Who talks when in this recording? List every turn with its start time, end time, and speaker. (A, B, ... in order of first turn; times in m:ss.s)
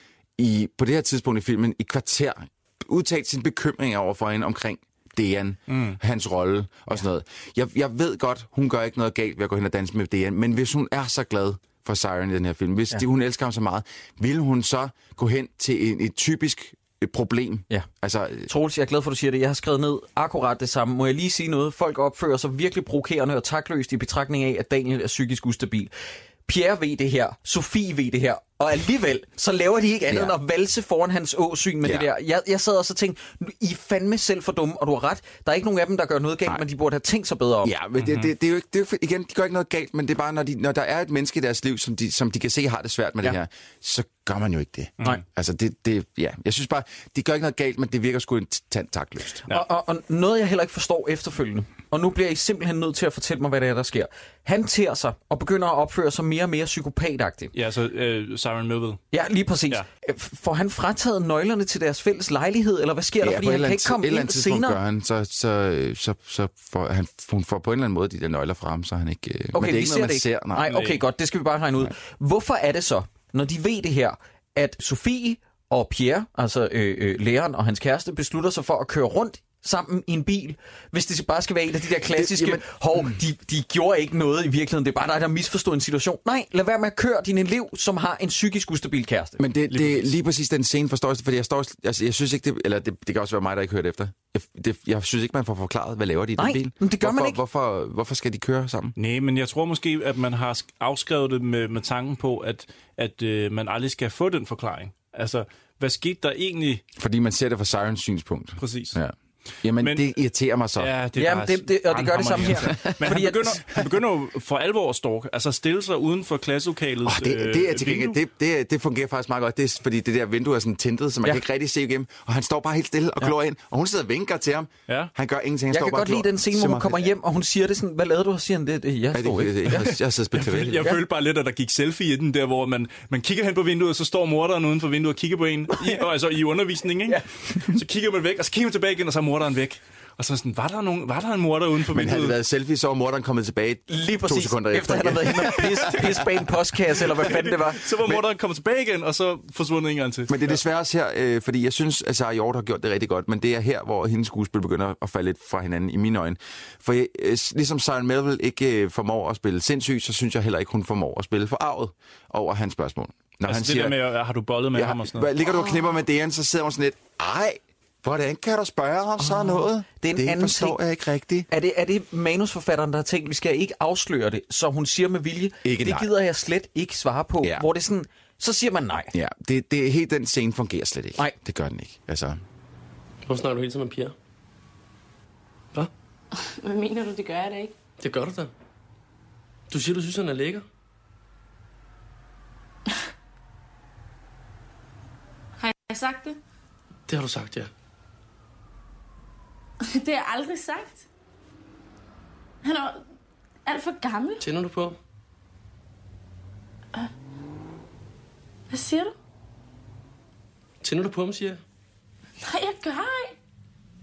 0:00.4-0:18.5 A
0:05.7-0:06.0 B
0:18.5-0:25.9 C
0:26.5-0:37.7 C
0:30.1-0:30.4 A
0:31.8-0:32.1 A
0:37.6-0:49.4 A
0:38.0-0:38.3 B
0:49.5-0:57.5 C
0:57.5-0:59.0 B
0:59.1-1:04.8 C
1:03.2-1:10.8 A
1:09.5-1:29.4 C
1:10.7-1:11.0 B
1:22.1-1:23.0 A
1:29.4-1:39.0 A
1:29.7-1:30.1 B
1:36.4-1:37.4 C
1:39.0-1:46.8 B
1:47.0-1:50.9 A
1:48.6-1:49.0 B
1:49.8-1:50.1 B
1:50.8-1:58.2 B
1:51.2-1:53.6 C
1:57.0-2:07.1 A
2:05.7-2:09.9 C
2:09.1-2:10.9 A
2:09.7-2:22.4 B
2:15.7-2:16.0 C
2:21.9-2:26.2 A
2:23.9-2:27.8 C
2:27.2-2:30.6 B
2:30.3-2:44.0 A
2:43.4-2:45.3 B
2:44.7-2:51.5 A
2:49.2-2:50.8 C
2:51.5-2:59.1 C
2:55.6-2:56.1 A
2:57.4-2:57.7 A
2:59.1-3:02.4 A
3:03.3-3:04.1 D
3:06.4-3:07.8 E
3:08.0-3:08.5 D
3:09.7-3:10.7 D
3:15.6-3:16.4 E
3:17.1-3:17.7 D
3:19.8-3:21.0 E
3:22.6-3:23.0 E
3:23.7-3:24.4 E
3:24.4-3:25.0 D
3:28.7-3:29.1 E
3:30.8-3:31.6 D
3:32.4-3:33.4 E